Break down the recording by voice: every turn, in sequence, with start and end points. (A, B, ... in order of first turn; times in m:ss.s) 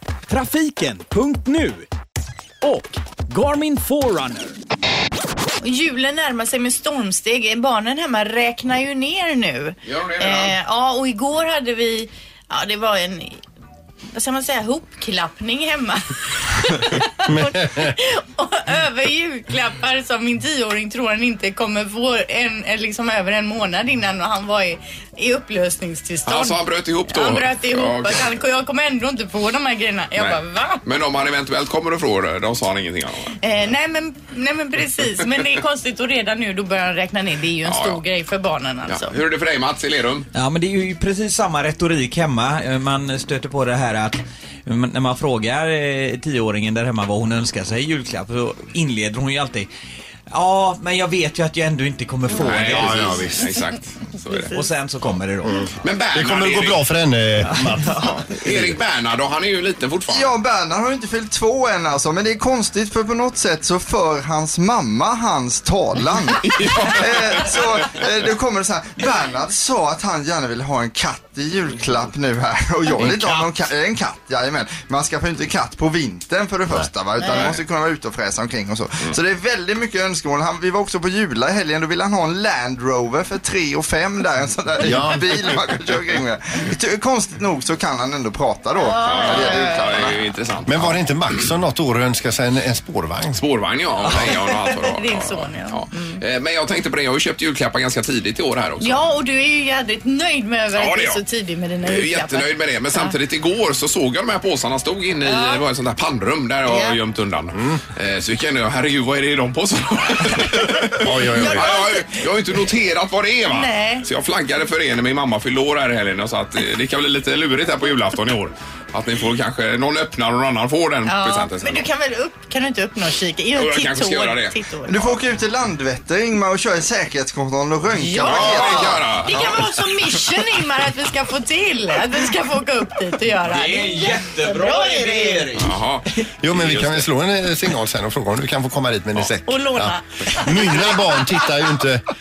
0:00.3-0:01.8 A
0:02.6-0:04.5 A
0:05.6-0:13.4 B
0:09.8-0:10.5 C
0:14.1-0:26.6 B
0:17.3-0:17.9 D
0:26.2-0:28.3 C
0:27.1-0:30.8 B
0:30.2-0:33.4 C
0:33.4-0:39.2 B
0:37.6-0:38.0 C
0:38.9-0:40.3 C
0:40.3-0:49.7 E
0:50.3-0:53.3 E
0:52.4-0:54.5 C
0:52.7-0:53.5 D
0:54.3-0:54.6 B
0:54.5-0:55.7 E
0:55.5-0:58.8 D
0:55.8-0:56.8 C
0:57.4-0:58.2 E
0:58.2-1:00.3 C
1:00.1-1:30.1 F
1:06.4-1:07.7 C
1:13.0-1:13.5 E
1:17.2-1:17.5 B
1:17.3-1:17.6 C
1:24.8-1:25.3 D
1:28.8-1:30.2 B
1:29.0-1:31.0 C
1:30.6-1:33.4 D
1:33.3-1:39.0 C
1:34.8-1:36.2 B
1:38.8-1:43.1 B
1:40.7-1:41.2 C
1:41.8-2:01.9 C
1:45.2-1:45.6 B
1:46.6-1:47.0 B
1:47.5-1:47.8 D
1:51.0-1:51.8 D
1:51.3-1:52.2 B
1:53.5-1:54.0 B
2:01.0-2:04.9 B
2:03.6-2:05.1 C
2:04.9-2:09.3 F
2:08.0-2:15.5 B
2:08.2-2:10.2 C
2:13.4-2:15.8 E
2:15.6-2:17.1 C
2:16.4-2:22.0 D
2:19.5-2:21.4 B